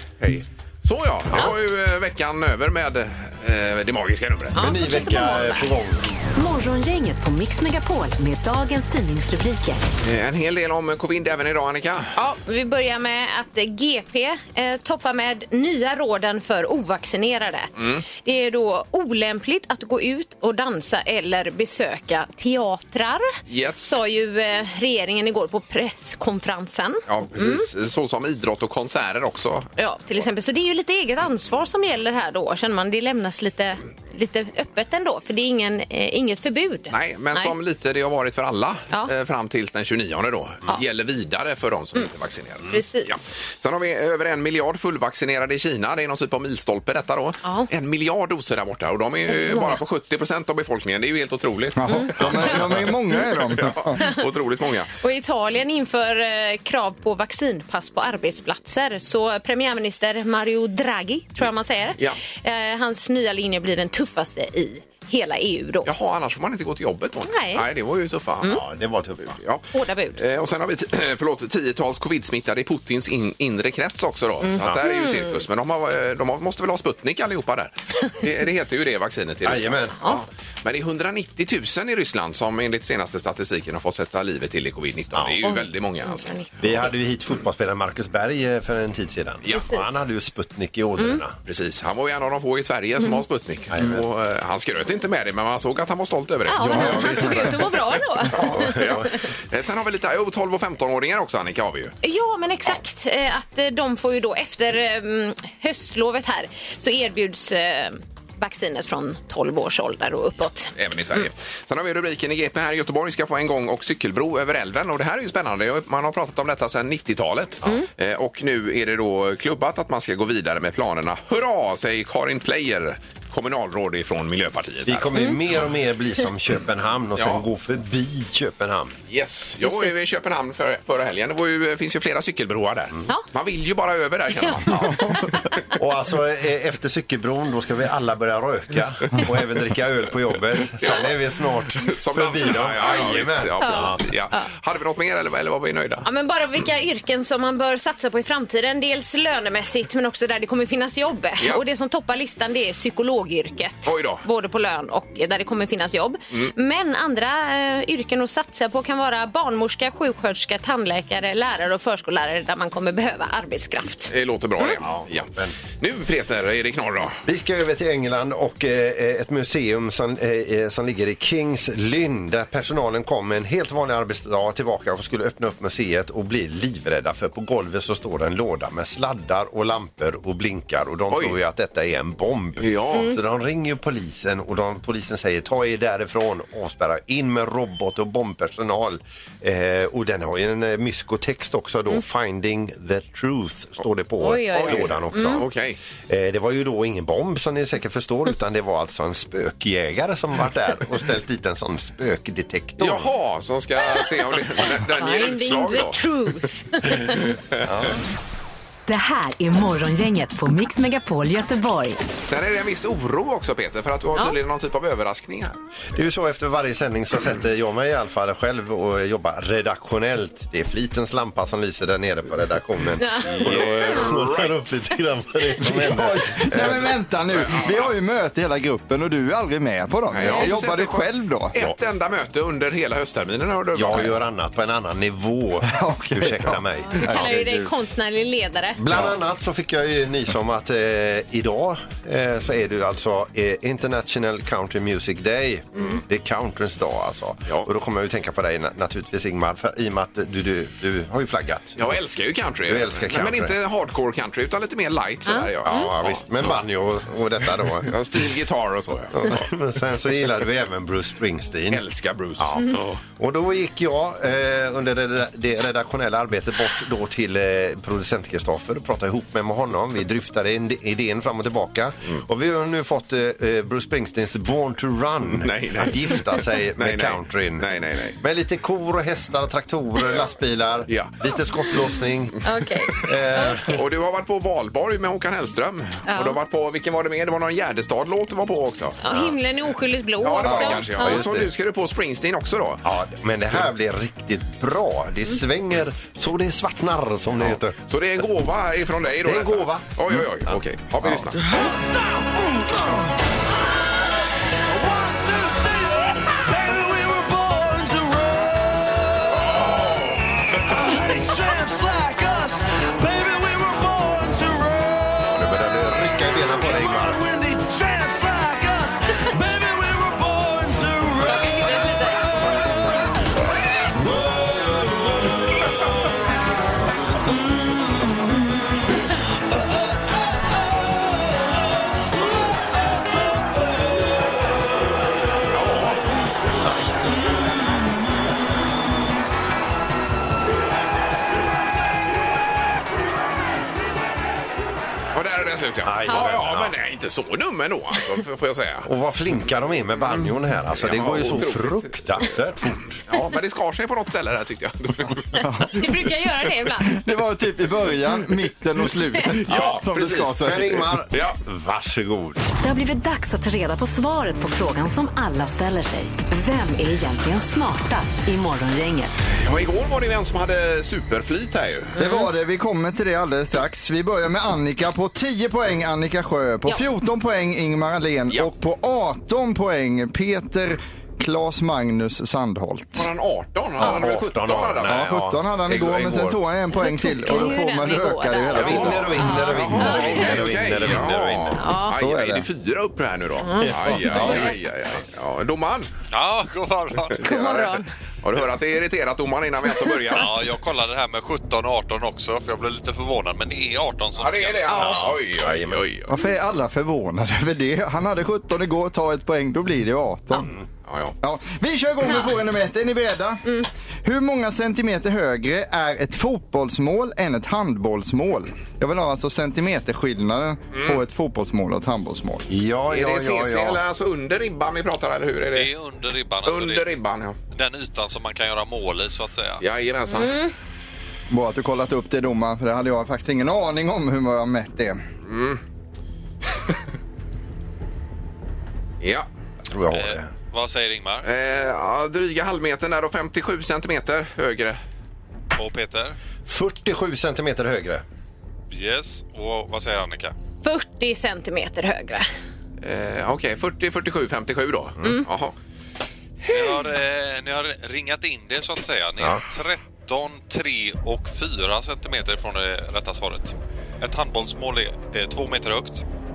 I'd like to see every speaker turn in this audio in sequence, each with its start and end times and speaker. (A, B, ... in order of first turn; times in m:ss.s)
0:00.2-0:04.6 A
0:04.6-0:05.7 B
0:04.6-0:06.1 C
0:06.4-0:09.8 D
0:10.0-0:12.1 A
0:12.2-0:27.7 B
0:17.8-0:18.0 A
0:23.5-0:24.0 A
0:27.1-0:29.7 A
0:29.8-0:37.5 B
0:36.9-0:54.9 A
0:42.7-0:43.1 B
0:47.4-0:47.7 B
0:49.4-0:49.8 B
0:51.8-0:54.0 E
0:51.9-0:52.4 B
0:52.2-0:52.8 C
0:55.0-1:05.9 B
1:05.8-1:08.6 A
1:07.3-1:07.6 B
1:08.4-1:09.4 C
1:09.3-1:26.8 A
1:09.7-1:10.2 B
1:14.4-1:15.4 B
1:19.4-1:20.2 C
1:25.4-1:26.9 B
1:26.6-1:31.4 C
1:29.4-1:29.7 A
1:29.5-1:29.8 B
1:31.4-1:41.9 A
1:33.7-1:34.0 C
1:36.5-1:39.0 B
1:36.7-1:37.5 E
1:38.4-1:39.1 C
1:42.0-1:51.3 B
1:50.8-2:05.1 A
2:04.9-2:09.0 C
2:07.2-2:07.4 A
2:09.1-2:15.5 A
2:09.6-2:09.9 B
2:14.4-2:15.3 B
2:15.8-2:24.0 C
2:20.8-2:21.1 A
2:21.8-2:26.1 A
2:23.6-2:24.4 B
2:26.0-2:44.8 B
2:33.8-2:34.2 A
2:44.1-2:47.2 A
2:44.8-2:45.6 C
2:47.2-3:15.5 C
3:01.1-3:01.4 A
3:02.6-3:03.1 A
3:14.2-3:15.4 B
3:14.5-3:15.8 A
3:16.1-3:23.1 C
3:22.8-3:26.0 A
3:24.9-3:27.2 B
3:27.6-3:28.0 C
3:28.9-3:32.0 D
3:32.3-3:35.6 A
3:36.0-3:46.9 C
3:43.0-3:44.0 B
3:43.2-3:44.6 A
3:45.6-3:51.5 E
3:46.5-3:47.9 A
3:50.1-3:54.1 A
3:50.2-3:50.5 B
3:53.7-3:57.4 C
3:55.7-3:57.7 E
3:56.9-3:58.8 B
3:58.8-4:12.0 C
4:11.8-4:16.6 A
4:12.6-4:13.6 C
4:15.3-4:15.9 B
4:15.6-4:18.0 C
4:17.8-4:19.4 A
4:19.1-4:21.8 C
4:21.7-4:22.9 A
4:22.4-4:42.4 C
4:35.3-4:36.2 A
4:36.8-4:38.2 A
4:40.9-4:41.1 A
4:42.4-4:43.8 B
4:42.9-4:43.8 C
4:43.7-4:49.3 A
4:46.1-4:46.4 B
4:49.0-4:51.2 B
4:50.2-4:52.8 A
4:50.4-4:50.8 E
4:50.8-4:51.5 C
4:52.8-4:57.8 C
4:57.4-5:01.5 A
4:59.2-5:01.3 C
5:01.5-5:03.1 F
5:04.6-5:10.0 F
5:09.3-5:10.9 A
5:10.7-5:15.4 F
5:15.2-5:17.2 C
5:16.4-5:22.7 F
5:21.2-5:22.3 B
5:24.0-5:24.9 F
5:35.5-5:36.0 A
5:45.1-5:48.9 A
5:45.8-5:46.8 C
5:48.8-5:53.0 C
5:50.8-5:52.3 A
5:53.1-5:55.4 A
5:55.4-5:56.0 E
5:55.7-5:56.9 B
5:56.8-6:00.9 E
5:59.3-6:00.5 A
6:00.4-6:02.4 C
6:01.1-6:01.4 A
6:02.6-6:09.1 D
6:09.4-6:11.9 A
6:12.0-6:12.3 B
6:12.0-6:23.1 E
6:22.9-6:25.1 A
6:23.8-6:24.1 E
6:23.8-6:26.4 C
6:24.9-6:29.2 E
6:25.7-6:26.0 A
6:26.7-6:30.4 B
6:28.5-6:31.7 C
6:28.5-6:35.9 A
6:31.6-6:31.9 B
6:32.0-6:32.5 E
6:33.4-6:34.6 B
6:33.6-6:34.5 C
6:36.1-6:37.3 F
6:37.2-6:37.9 B
6:37.3-6:40.3 A
6:40.1-6:44.9 F
6:44.2-6:46.1 A
6:44.7-6:45.0 B
6:44.8-6:45.9 C
6:46.1-6:50.5 E
6:50.9-6:51.1 A
6:51.2-6:53.5 E
6:54.0-7:02.4 E
7:00.7-7:01.0 A
7:02.5-7:03.8 C
7:02.9-7:05.7 A
7:05.5-7:06.9 F
7:06.4-7:07.4 A
7:07.5-7:09.6 F
7:09.6-7:10.4 A
7:10.1-7:10.5 B
7:11.3-7:15.0 E
7:15.3-7:15.6 A
7:19.0-7:19.3 A
7:19.7-7:20.3 C
7:19.9-7:21.3 F
7:21.2-7:24.8 A
7:25.6-7:26.2 F
7:26.4-7:28.0 C
7:28.7-7:30.3 F
7:30.6-7:32.3 B
7:32.8-7:35.6 A
7:36.5-7:46.0 F
7:39.2-7:39.4 C